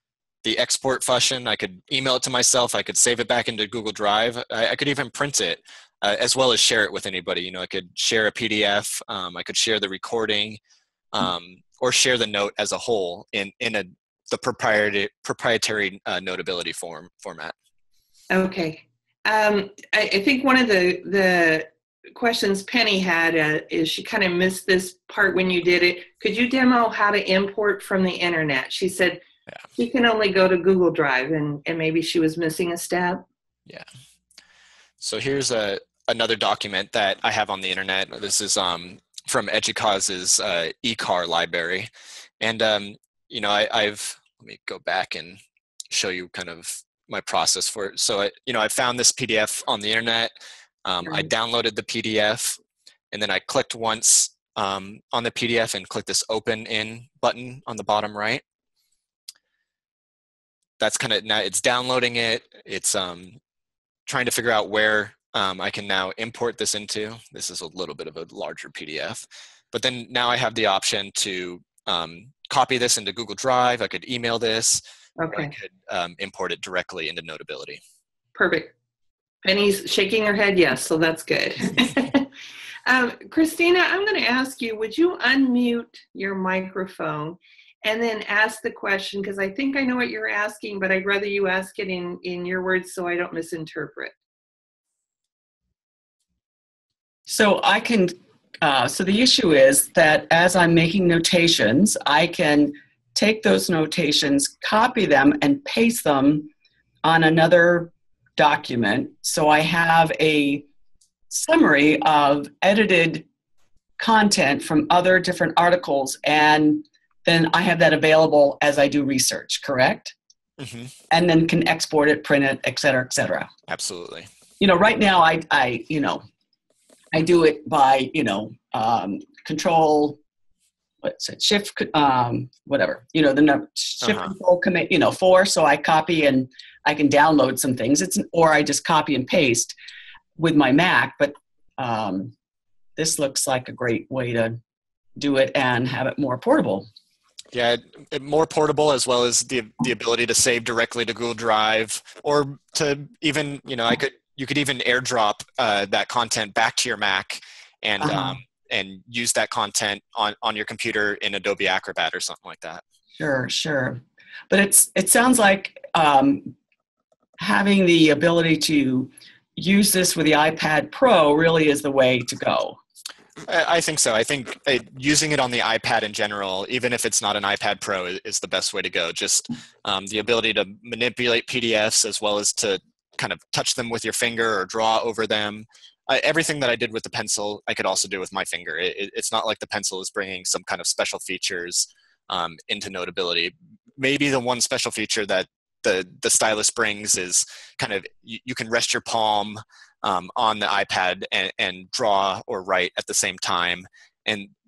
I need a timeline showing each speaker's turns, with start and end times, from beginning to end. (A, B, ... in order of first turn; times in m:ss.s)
0:00.4-0:10.6 A
0:11.1-0:17.5 A
0:18.3-0:29.2 B
0:29.8-0:33.2 B
0:35.0-0:45.4 A
0:45.9-0:52.6 A
0:53.1-0:58.4 A
1:00.8-1:03.4 A
1:04.1-1:17.8 A
1:15.2-1:15.5 B
1:18.4-1:18.7 B
1:19.4-1:22.3 B
1:22.9-1:34.2 B
1:37.3-1:46.5 C
1:47.0-1:50.7 C
1:51.3-1:53.3 C
1:54.0-2:00.1 C
2:00.6-2:00.9 A
2:01.1-2:03.5 C
2:03.7-2:04.3 A
2:04.6-2:06.2 C
2:07.1-2:10.2 C
2:11.0-2:19.7 C
2:14.0-2:14.3 A
2:20.4-2:22.3 C
2:23.0-2:24.6 C
2:25.2-2:26.9 C
2:27.5-2:42.8 A
2:38.0-2:38.4 C
2:43.2-2:46.5 C
2:47.4-2:52.8 C
2:53.5-3:24.5 A